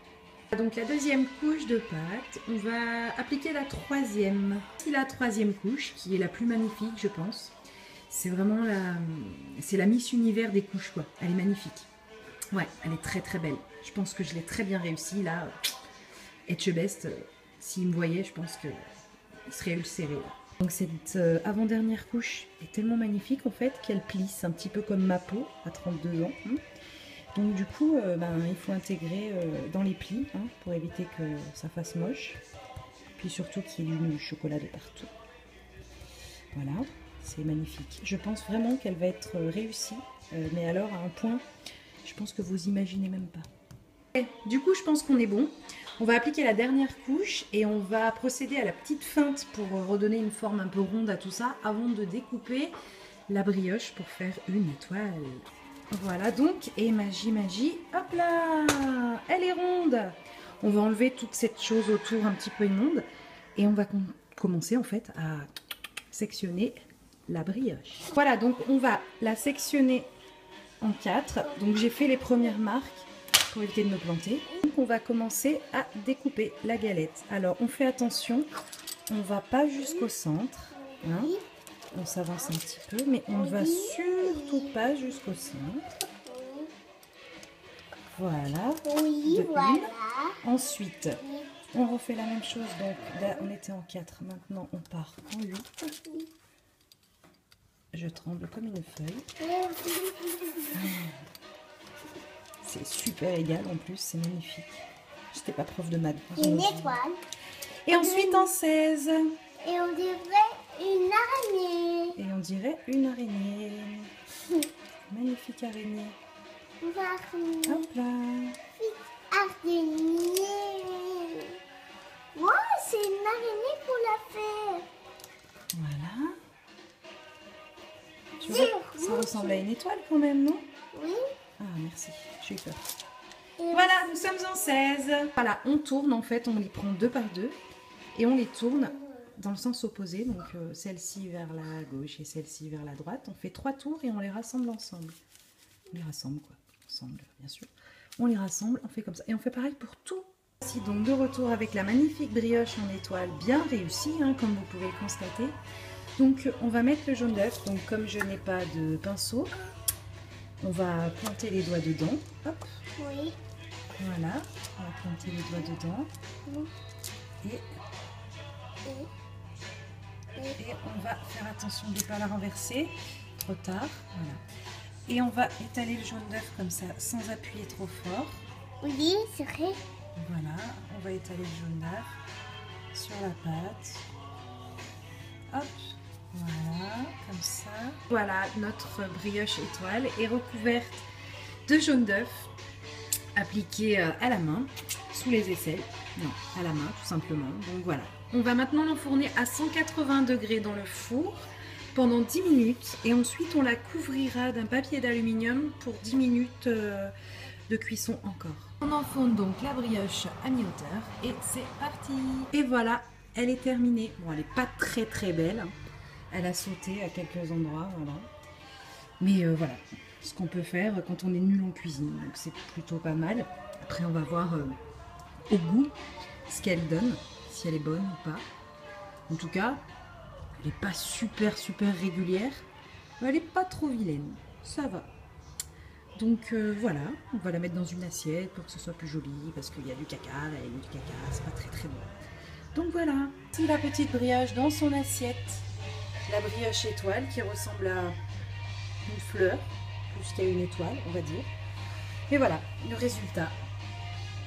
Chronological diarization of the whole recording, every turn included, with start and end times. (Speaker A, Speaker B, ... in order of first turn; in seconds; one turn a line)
Speaker A: 0.5-7.6
Speaker A: 8.1-11.9
Speaker A: 12.5-15.7
Speaker A: 16.5-18.9
Speaker A: 19.5-26.6
Speaker A: 27.4-32.4
Speaker A: 33.2-35.1
Speaker A: 36.5-41.5
Speaker A: 42.0-43.5
Speaker A: 44.1-52.8
Speaker A: 53.3-65.5
Speaker A: 66.1-66.8
Speaker A: 67.3-70.1
Speaker A: 70.8-78.5
Speaker A: 79.1-81.4
Speaker B: 81.0-81.4
Speaker A: 81.9-85.9
Speaker B: 83.3-84.6
Speaker B: 86.2-86.7
Speaker A: 88.1-91.2
Speaker B: 88.8-90.4
Speaker B: 91.2-91.5
Speaker A: 91.7-96.0
Speaker A: 97.9-99.3
Speaker B: 99.4-100.7
Speaker A: 100.7-101.3
Speaker A: 102.6-107.0
Speaker B: 106.4-107.2
Speaker A: 107.8-109.4
Speaker B: 107.9-108.5
Speaker B: 109.6-112.2
Speaker A: 112.2-114.1
Speaker A: 115.1-116.2
Speaker B: 116.8-117.9
Speaker A: 117.7-118.6
Speaker B: 118.8-121.6
Speaker B: 122.3-124.9
Speaker A: 125.7-126.4
Speaker B: 128.4-129.6
Speaker A: 128.4-130.7
Speaker B: 130.9-131.2
Speaker A: 131.6-132.8
Speaker B: 133.6-134.0
Speaker A: 133.7-137.6
Speaker A: 138.2-145.2
Speaker A: 145.9-155.6
Speaker A: 156.2-159.6
Speaker A: 160.6-162.8
Speaker B: 163.0-163.4
Speaker A: 164.0-166.1
Speaker B: 166.5-166.7
Speaker B: 168.8-169.1
Speaker A: 170.5-174.4
Speaker A: 175.1-178.4
Speaker B: 178.8-179.8
Speaker A: 180.2-182.2
Speaker A: 182.9-184.1
Speaker A: 185.5-191.1
Speaker A: 191.7-192.5
Speaker A: 193.3-207.1
Speaker A: 207.7-215.8
Speaker A: 216.3-218.3
Speaker A: 219.2-224.8
Speaker A: 225.5-225.9
Speaker A: 226.5-228.5
Speaker A: 229.3-229.8
Speaker A: 230.6-232.7
Speaker A: 233.2-235.1
Speaker A: 236.2-242.2
Speaker A: 242.8-245.7
Speaker A: 246.3-248.2
Speaker A: 249.1-251.5
Speaker A: 252.3-253.6